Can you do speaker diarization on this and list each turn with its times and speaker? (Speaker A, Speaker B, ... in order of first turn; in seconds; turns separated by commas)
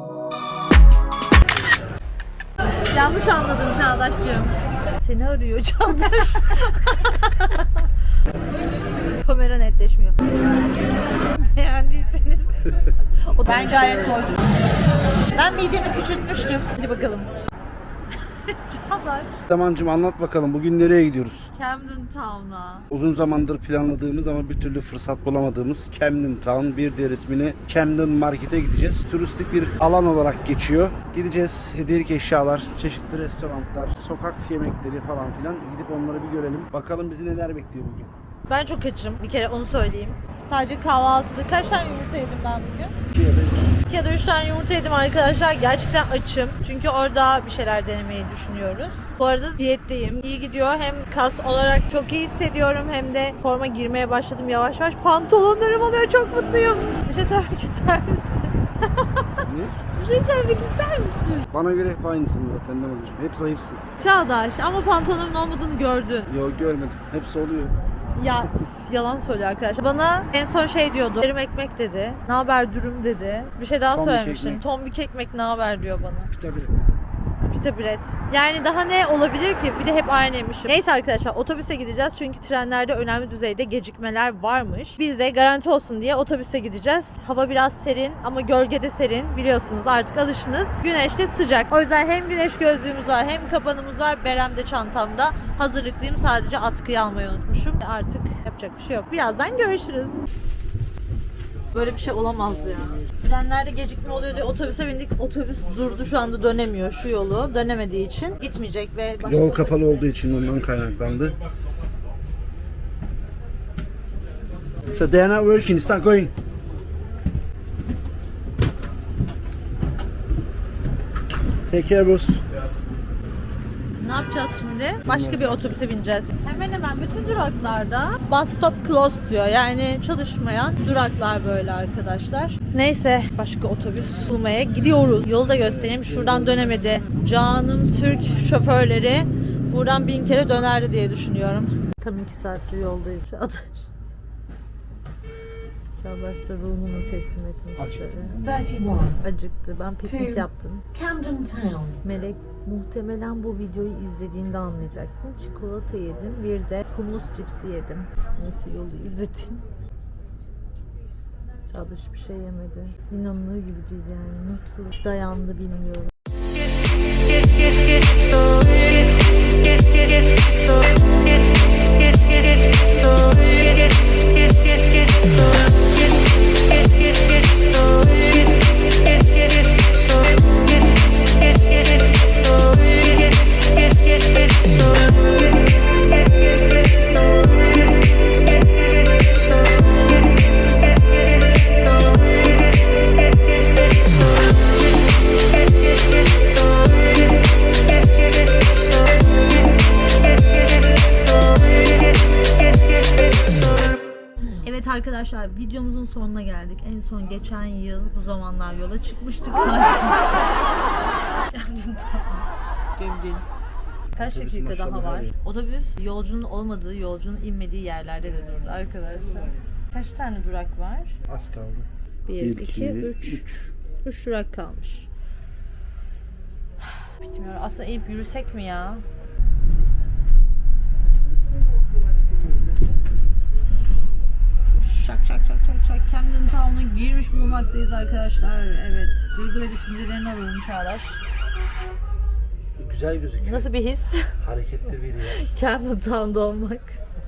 Speaker A: 2.9-7.9, Speaker A: 9.2-10.2, Speaker A: 11.3-14.4, Speaker A: 15.3-17.3, Speaker A: 18.1-19.4, Speaker B: 19.5-21.5, Speaker A: 21.5-22.9, Speaker B: 22.9-38.1, Speaker A: 38.5-42.9, Speaker B: 43.1-43.8, Speaker A: 43.9-61.5, Speaker B: 59.4-59.8, Speaker B: 61.5-63.8, Speaker A: 64.0-66.3, Speaker B: 66.3-67.8, Speaker A: 68.2-76.3, Speaker B: 73.9-74.6, Speaker B: 76.3-76.8, Speaker A: 77.5-100.3, Speaker A: 101.7-110.0, Speaker B: 109.2-111.4, Speaker B: 114.9-116.3, Speaker B: 121.7-122.4, Speaker A: 124.0-143.9, Speaker B: 125.0-125.7, Speaker B: 135.6-136.8, Speaker A: 146.0-148.4, Speaker C: 148.4-149.2, Speaker A: 149.2-150.9, Speaker C: 150.1-150.4, Speaker C: 150.9-152.0, Speaker A: 152.0-159.7, Speaker A: 161.7-166.1, Speaker A: 204.6-210.5, Speaker A: 211.5-212.5, Speaker A: 213.0-213.4, Speaker B: 214.2-215.3, Speaker A: 214.2-221.1, Speaker B: 221.3-221.9, Speaker A: 222.2-223.4, Speaker B: 222.4-223.7, Speaker A: 224.0-225.1, Speaker A: 226.8-229.0, Speaker A: 234.8-241.2, Speaker B: 242.8-243.7, Speaker A: 243.4-244.3, Speaker B: 244.4-245.4, Speaker A: 245.3-247.0